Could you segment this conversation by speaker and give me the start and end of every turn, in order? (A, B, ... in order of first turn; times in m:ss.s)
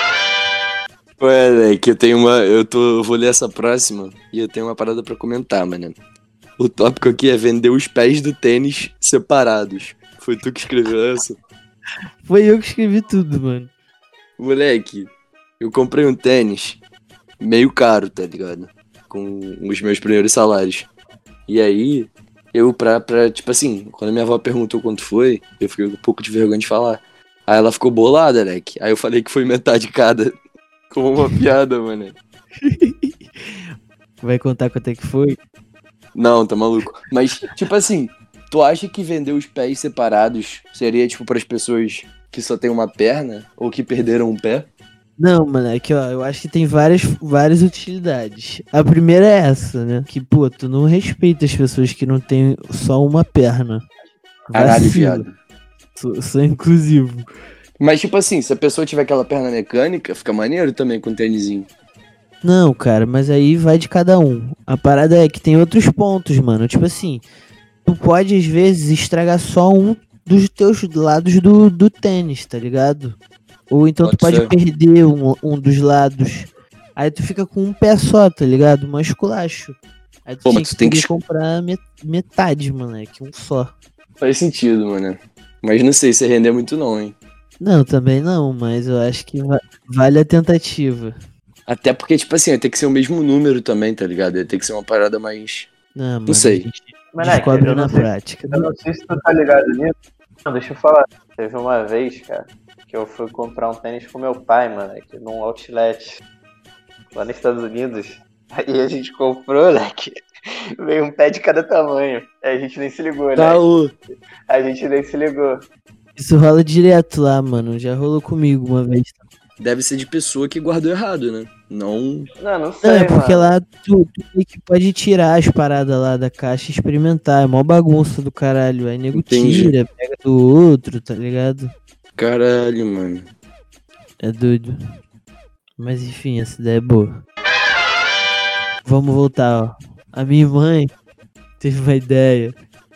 0:01.2-0:06.0 A
0:06.6-0:11.4 A
0:12.2-0:13.7 B
0:14.4-0:16.8 A
0:17.4-0:20.9 A
0:21.5-0:30.3 A
0:30.9-0:32.2 A
0:32.6-0:33.6 B
0:34.2-0:35.4 B
0:36.1-0:44.7 A
0:45.2-0:53.8 B
0:54.5-0:55.2 B
0:54.5-0:55.3 A
0:56.0-0:57.2 B
0:57.8-1:01.7 A
1:02.4-1:07.2 B
1:07.8-1:13.2 B
1:13.7-1:23.7 B
1:14.0-1:14.5 A
1:20.4-1:21.1 A
1:24.2-1:27.1 A
1:27.6-1:31.2 B
1:31.7-1:35.7 A
1:35.9-1:38.6 B
1:36.3-1:36.7 A
1:37.1-1:39.9 C
1:40.4-1:46.2 C
1:47.1-1:50.2 C
1:50.8-1:53.6 C
1:53.4-1:53.9 A
1:54.5-1:55.6 C
1:56.2-1:59.2 B
1:59.6-2:02.3 A
2:02.4-2:03.5 C
2:02.8-2:11.7 B
2:09.1-2:09.7 A
2:12.2-2:13.3 A
2:14.2-2:14.8 B
2:15.8-2:17.1 B
2:18.8-2:20.9 B
2:21.6-2:22.5 B